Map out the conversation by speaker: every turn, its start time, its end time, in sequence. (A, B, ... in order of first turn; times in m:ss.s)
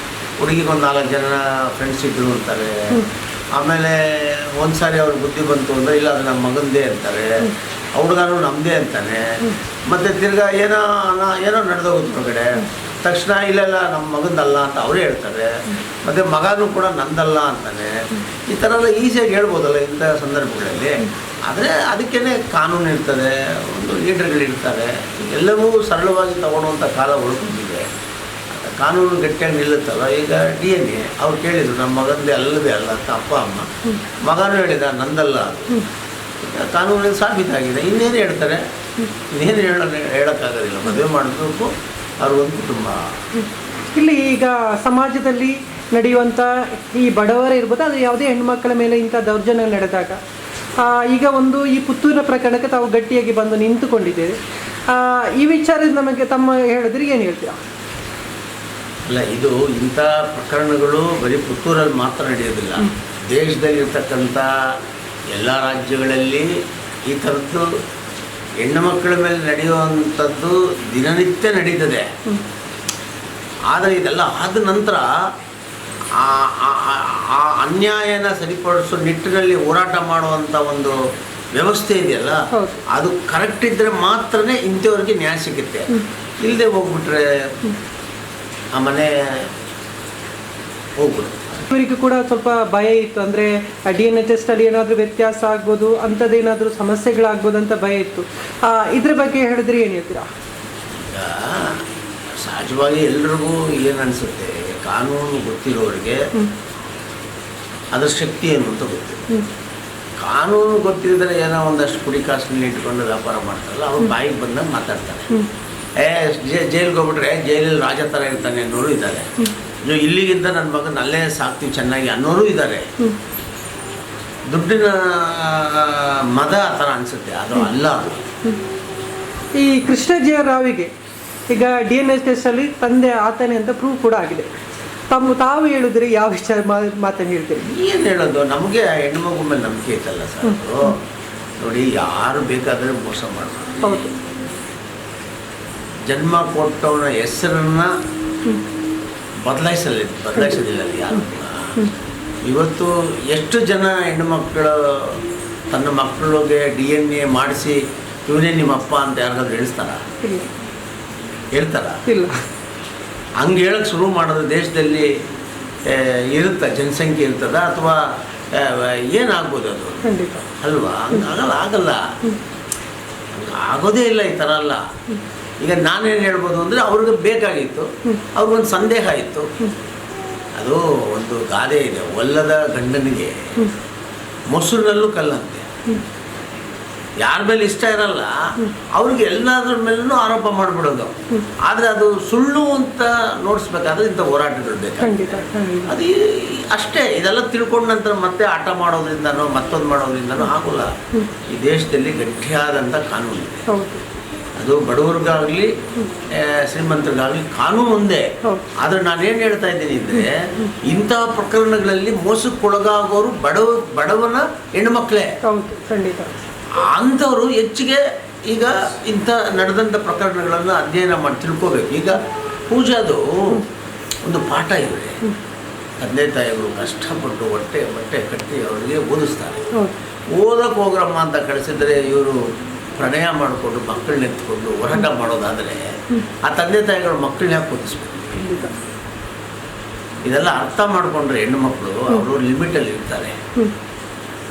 0:00.4-0:27.9 A
0:28.5-0:33.7 A
0:34.2-0:35.8 A
0:36.4-0:38.6 A
0:39.3-0:41.7 A
0:42.2-0:43.1 A
0:43.9-0:50.2 B
0:50.8-0:54.4 B
0:54.9-0:57.6 B
0:59.1-1:04.7 A
1:05.3-1:07.7 A
1:08.6-1:12.1 A
1:13.7-1:15.1 A
1:16.1-1:21.0 A
1:21.5-1:27.5 A
1:22.5-1:22.8 B
1:28.7-1:29.5 A
1:31.0-1:31.7 A
1:31.7-1:40.2 B
1:41.1-1:41.8 A
1:42.4-1:46.3 A
1:47.9-1:49.3 A
1:50.2-1:55.4 A
1:56.0-1:59.3 A
1:59.8-2:02.9 A
2:04.5-2:08.2 A
2:09.6-2:10.9 B
2:11.5-2:14.5 B
2:15.1-2:17.7 B
2:17.6-2:21.0 A
2:21.6-2:24.1 A
2:23.8-2:24.1 B
2:26.1-2:27.9 A
2:29.4-2:31.8 A
2:32.4-2:35.2 A
2:35.7-2:40.0 A
2:40.2-2:40.5 B
2:41.5-2:42.0 A
2:42.0-2:42.3 B
2:43.4-2:45.1 A
2:45.8-2:52.1 A
2:50.0-2:50.4 B
2:53.3-2:54.8 A
2:55.6-2:59.5 A
3:00.6-3:03.7 A
3:04.5-3:05.7 A
3:07.2-3:20.9 A
3:15.0-3:16.0 B
3:21.5-3:23.7 A
3:23.7-3:24.0 B
3:24.6-3:25.7 A
3:26.3-3:35.3 A
3:35.4-3:36.4 B
3:36.7-3:43.6 A
3:44.2-3:45.2 A
3:46.0-3:49.7 A
3:50.3-3:52.4 A
3:53.0-3:55.9 A
3:56.4-3:58.4 A
3:58.4-3:58.7 B
4:00.2-4:03.4 A